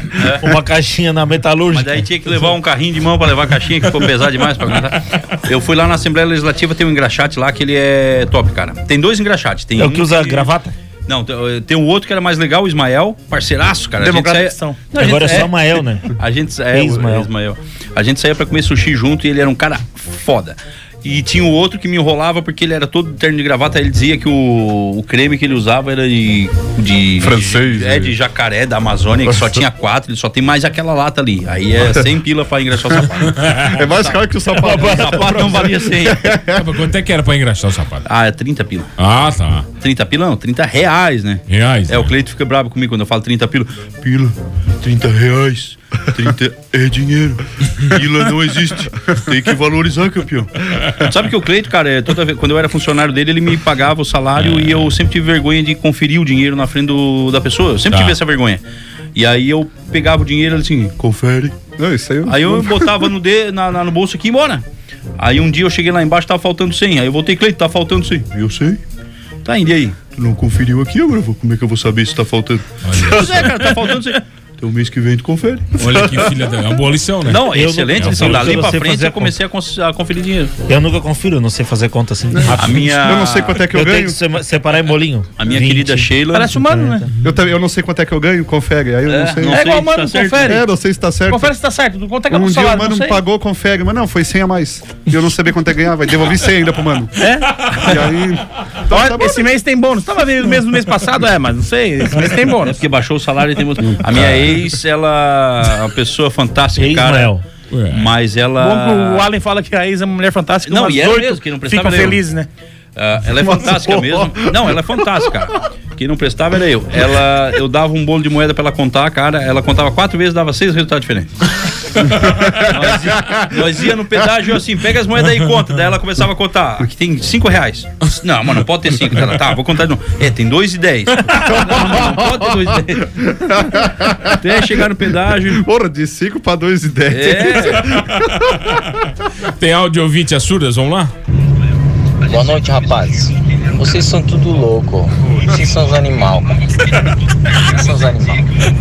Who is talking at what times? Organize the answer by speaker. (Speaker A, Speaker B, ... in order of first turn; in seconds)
Speaker A: 0.2-2.1, 9.8-10.7, 14.9-16.1, 16.7-17.3, 34.5-35.6, 77.3-79.3, 80.7-83.0, 83.7-87.1, 106.8-107.4
Speaker B: 0.2-0.5, 1.7-10.5, 11.1-15.5, 16.2-36.3, 38.0-38.9, 39.8-43.9, 51.0-58.6, 59.1-60.9, 62.2-64.6, 65.2-68.3, 69.4-70.0, 73.0-74.2, 77.3-80.5, 82.6-83.6, 85.4-86.6, 89.1-90.6, 102.6-107.3, 107.9-109.3, 110.6-112.2, 113.0-121.3, 122.7-133.1, 134.3-135.6, 137.1-137.9
Speaker C: 14.0-15.4, 86.3-87.1, 89.4-90.7, 91.3-93.2, 97.2-97.9, 98.9-102.8, 108.6-112.5
Speaker D: 27.2-28.1, 33.5-36.6, 61.8-63.0, 82.3-84.2, 87.2-89.6, 90.4-91.5, 92.3-97.1, 97.8-99.4, 113.4-114.5, 122.2-123.4, 131.4-132.4, 133.2-134.4, 135.5-138.6
Speaker E: 33.4-33.7, 36.5-38.0, 39.0-39.7, 41.5-42.1, 54.4-54.9, 57.9-58.2, 72.8-73.7, 75.8-78.7, 107.7-108.1, 139.6-141.1
Speaker F: 44.0-50.7, 61.0-61.5, 68.3-68.8, 70.1-73.5, 74.6-76.0
Speaker G: 142.3-146.5, 147.6-148.4